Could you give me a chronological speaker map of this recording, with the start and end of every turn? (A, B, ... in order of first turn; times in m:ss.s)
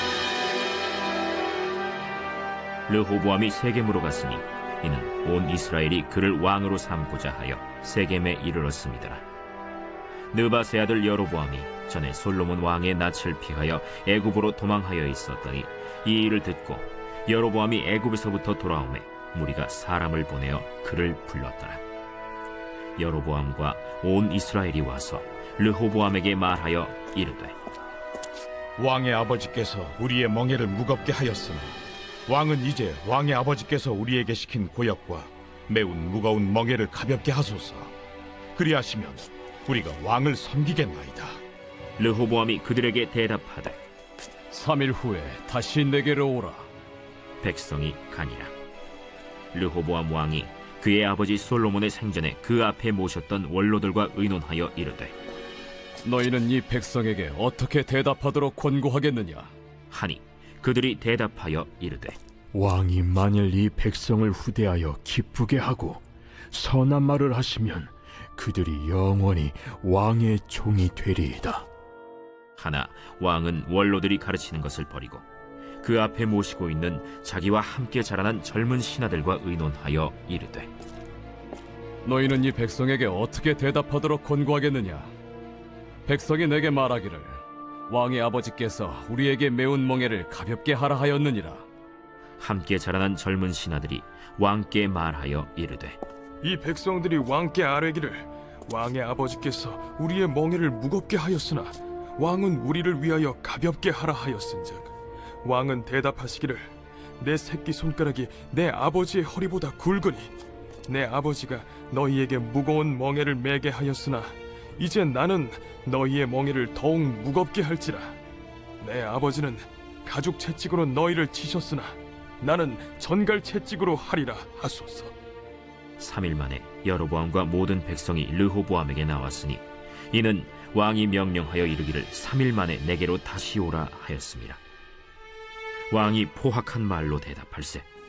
0:02.9-0:09.2 A
0:10.3-0:21.8 A
0:23.0-0:27.6 A
0:28.8-0:37.9 B
0:38.6-0:41.4 B
0:42.0-0:43.8 A
0:44.5-0:46.7 C
0:47.4-0:48.5 A
0:49.5-0:55.2 A
0:56.0-0:59.5 C
0:59.9-1:02.2 A
1:02.5-1:11.7 D
1:12.6-1:15.2 A
1:15.8-1:20.7 A
1:22.0-1:25.1 C
1:26.1-1:31.6 C
1:32.4-1:36.0 A
1:36.4-1:44.9 E
1:45.4-1:50.3 E
1:50.9-1:58.2 E
1:58.8-2:05.1 E
2:06.0-2:14.6 A
2:15.9-2:17.9 A